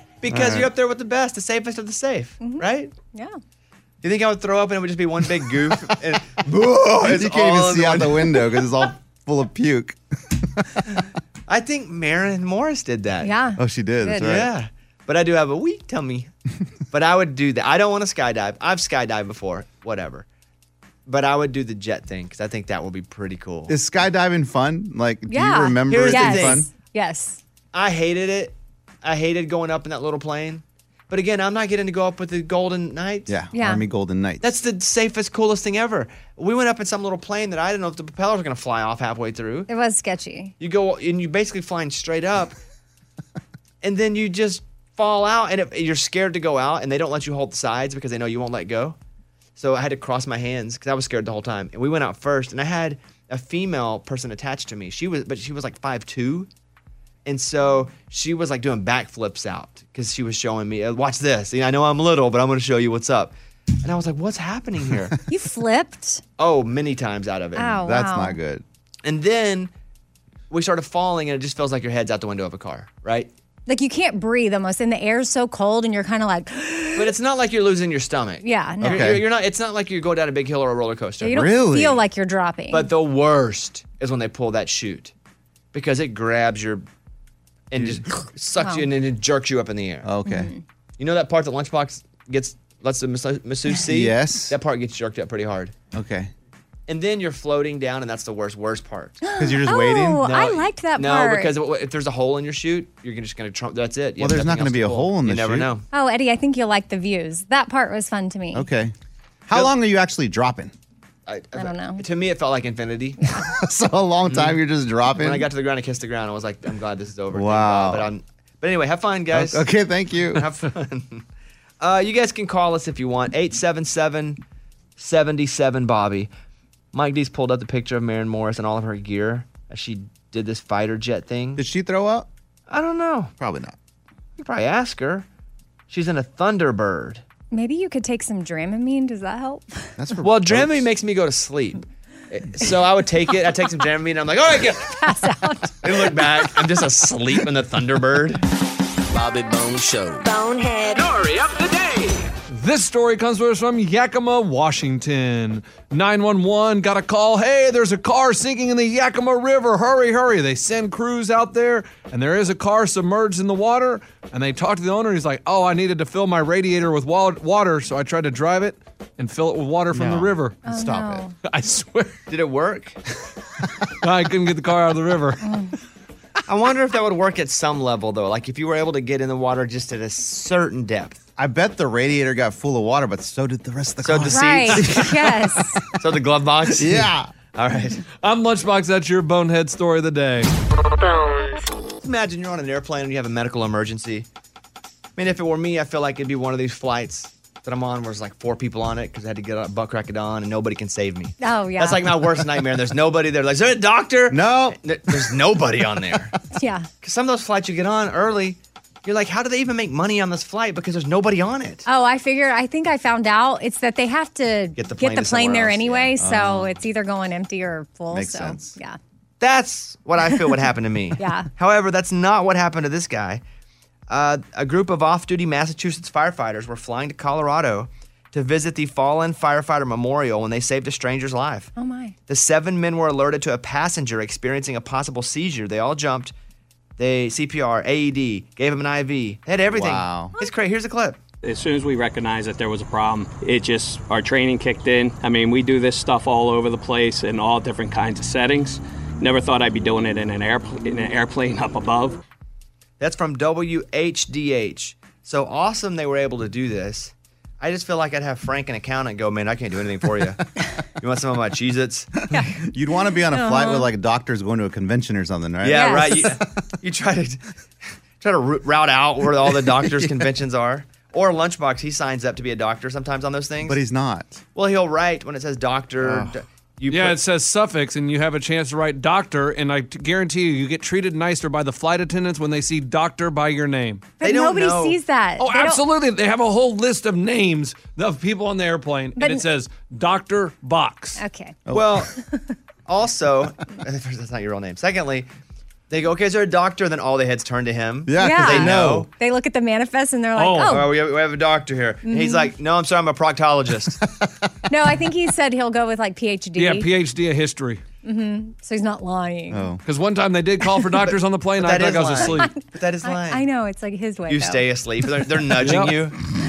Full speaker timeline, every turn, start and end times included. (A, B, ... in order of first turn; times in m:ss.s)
0:00.2-0:02.9 A
0:00.3-0:00.7 B
0:02.4-0:03.4 C
0:04.0-0:08.5 A
0:07.0-0:10.0 B
0:10.6-0:10.8 B
0:11.5-0:13.3 A
0:13.2-0:14.3 C
0:13.6-0:14.5 B
0:14.2-0:16.3 A
0:16.9-0:20.3 A
0:21.1-0:23.8 A
0:23.7-0:26.7 B
0:25.3-0:27.4 C
0:25.9-0:26.7 A
0:27.7-0:33.3 A
0:33.3-0:34.5 B
0:33.5-0:33.8 C
0:34.4-0:39.7 A
0:39.7-0:40.5 C
0:40.6-0:42.6 A
0:43.8-0:49.0 A
0:49.6-0:56.5 A
0:57.3-1:05.2 A
1:05.3-1:06.2 C
1:06.4-1:07.8 A
1:07.6-1:08.4 C
1:07.8-1:08.6 B
1:09.0-1:09.7 A
1:10.5-1:13.3 A
1:13.7-1:17.1 C
1:17.0-1:21.4 A
1:18.4-1:19.1 C
1:18.8-1:19.3 B
1:21.2-1:22.9 C
1:21.2-1:22.0 B
1:22.7-1:25.1 A
1:25.7-1:26.8 A
1:27.7-1:30.1 A
1:27.8-1:28.0 B
1:28.6-1:28.8 C
1:30.0-1:30.5 B
1:30.2-1:30.6 C
1:31.0-1:35.8 A
1:33.9-1:34.6 B
1:35.9-1:36.3 B
1:36.9-1:39.2 A
1:39.2-1:41.5 C
1:39.4-1:40.3 B
1:40.2-1:45.9 A
1:44.2-1:45.7 B
1:45.9-1:48.7 C
1:48.5-1:49.0 B
1:49.5-1:50.7 B
1:51.3-1:53.2 A
1:51.6-1:52.0 C
1:53.5-1:55.5 B
1:54.3-1:54.6 A
1:55.2-1:59.7 A
1:57.3-1:58.1 B
1:59.3-2:00.5 B
2:00.3-2:01.2 A
2:01.8-2:04.4 A
2:05.0-2:06.3 A
2:06.9-2:11.6 A
2:11.6-2:12.3 B
2:12.7-2:13.3 A
2:13.4-2:13.8 B
2:14.4-2:15.3 A
2:15.9-2:17.2 A
2:17.5-2:19.9 C
2:20.0-2:20.9 B
2:20.2-2:25.0 A
2:25.0-2:26.2 C
2:25.8-2:28.4 A
2:29.4-2:30.0 D
2:30.2-2:31.4 E
2:32.5-2:50.9 F
2:49.9-2:51.3 B
2:50.6-2:51.3 C
2:51.4-2:52.2 F
2:52.3-2:53.0 A
2:54.0-2:55.4 F
2:55.4-2:55.8 C
2:56.5-3:01.2 A
3:01.4-3:05.3 B
3:04.0-3:05.1 A
3:04.3-3:05.8 C
3:06.0-3:08.0 A
3:06.7-3:07.3 B
3:08.2-3:10.5 F
3:11.0-3:11.7 E
3:12.0-3:14.3 A
3:15.2-3:26.3 A
3:21.4-3:22.1 C
3:24.3-3:24.8 B
3:26.5-3:26.9 C
3:27.0-3:31.8 A
3:31.9-3:39.0 C
3:34.8-3:36.1 A
3:36.2-3:36.8 B
3:38.1-3:38.8 B
3:39.4-3:43.4 A
3:41.2-3:41.5 C
3:44.1-3:51.7 A
3:51.8-3:52.2 C
3:52.3-3:56.3 A
3:57.0-4:01.2 A
3:59.7-4:00.4 B
4:01.4-4:12.2 D
4:13.0-4:20.4 A
4:21.0-4:22.4 A
4:22.6-4:26.5 B
4:23.3-4:23.9 C
4:25.6-4:27.4 A
4:25.7-4:26.4 C
4:28.2-4:33.8 A
4:29.4-4:30.3 B
4:33.6-4:34.4 B
4:34.6-4:37.2 A
4:36.0-4:36.4 B
4:36.9-4:44.1 F
4:44.2-4:45.8 C
4:44.2-4:45.0 A
4:45.4-4:51.2 F
4:49.2-4:49.4 C
4:51.2-4:51.6 C
4:51.7-4:52.1 B
4:51.7-4:52.1 A
4:52.2-4:52.5 C
4:52.9-4:55.3 A
4:55.9-4:59.1 A
4:58.1-4:59.1 B
4:58.2-5:00.9 C
5:00.4-5:00.8 F
5:00.6-5:04.0 A
5:02.1-5:02.5 C
5:04.7-5:06.9 C
5:06.6-5:07.8 F
5:08.0-5:09.6 C
5:09.5-5:09.8 B
5:09.9-5:12.5 F
5:11.6-5:13.4 A
5:12.2-5:14.6 C
5:14.3-5:16.2 A
5:15.6-5:16.0 F